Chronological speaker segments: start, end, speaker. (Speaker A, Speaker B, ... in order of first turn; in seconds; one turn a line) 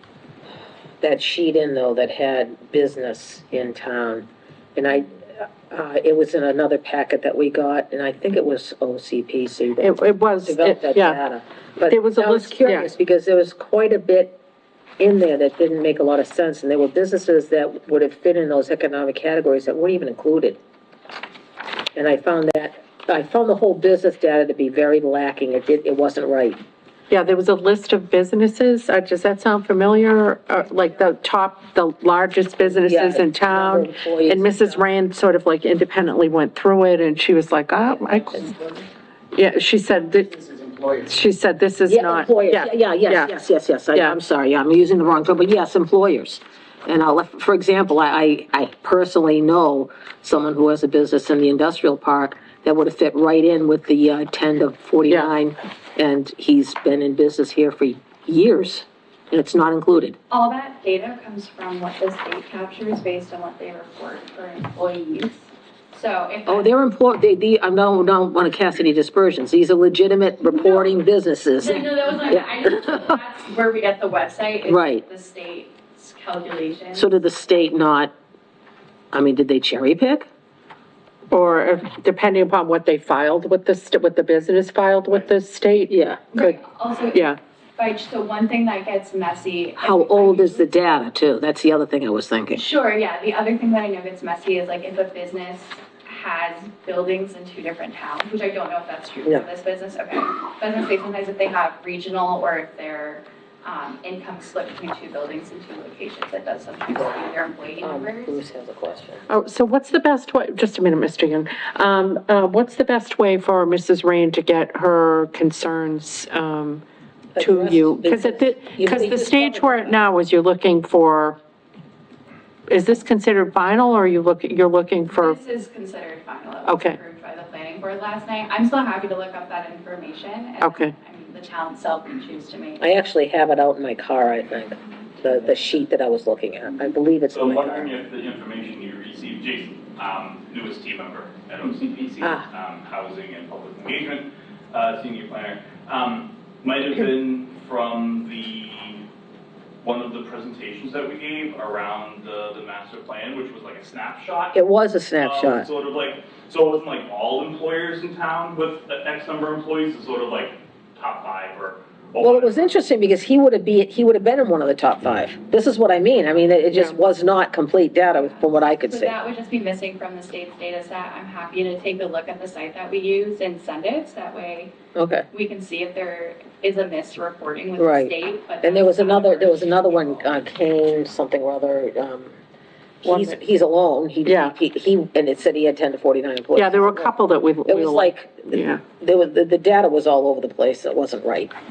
Speaker A: 1.0-9.9
Speaker B: 9.8-11.2
Speaker A: 10.4-14.4
Speaker B: 11.9-12.9
Speaker A: 15.0-20.6
Speaker A: 21.9-26.6
Speaker B: 27.1-38.5
Speaker A: 32.6-34.8
Speaker B: 39.3-40.4
Speaker B: 41.0-43.3
Speaker A: 41.9-60.2
Speaker C: 60.3-66.7
Speaker A: 66.5-73.2
Speaker C: 70.5-71.0
Speaker C: 71.5-77.1
Speaker A: 74.7-75.0
Speaker A: 76.9-78.1
Speaker A: 79.1-80.3
Speaker B: 81.3-86.6
Speaker A: 85.9-86.2
Speaker C: 86.3-90.7
Speaker B: 87.1-87.4
Speaker A: 89.8-92.6
Speaker C: 92.5-108.4
Speaker A: 107.8-109.2
Speaker B: 109.3-116.8
Speaker A: 117.3-120.0
Speaker B: 117.4-121.4
Speaker B: 122.7-125.4
Speaker C: 125.1-132.8
Speaker B: 126.6-127.0
Speaker B: 130.6-130.9
Speaker A: 132.8-137.9
Speaker D: 137.3-149.0
Speaker D: 149.8-154.6
Speaker A: 154.5-155.7
Speaker D: 155.2-162.7
Speaker A: 162.2-169.1
Speaker B: 166.7-167.0
Speaker C: 168.1-174.7
Speaker A: 174.9-175.3
Speaker C: 175.3-180.3
Speaker A: 177.8-182.3
Speaker A: 183.0-187.1
Speaker B: 183.0-183.4
Speaker B: 184.2-184.5
Speaker B: 186.5-188.8
Speaker A: 187.7-191.5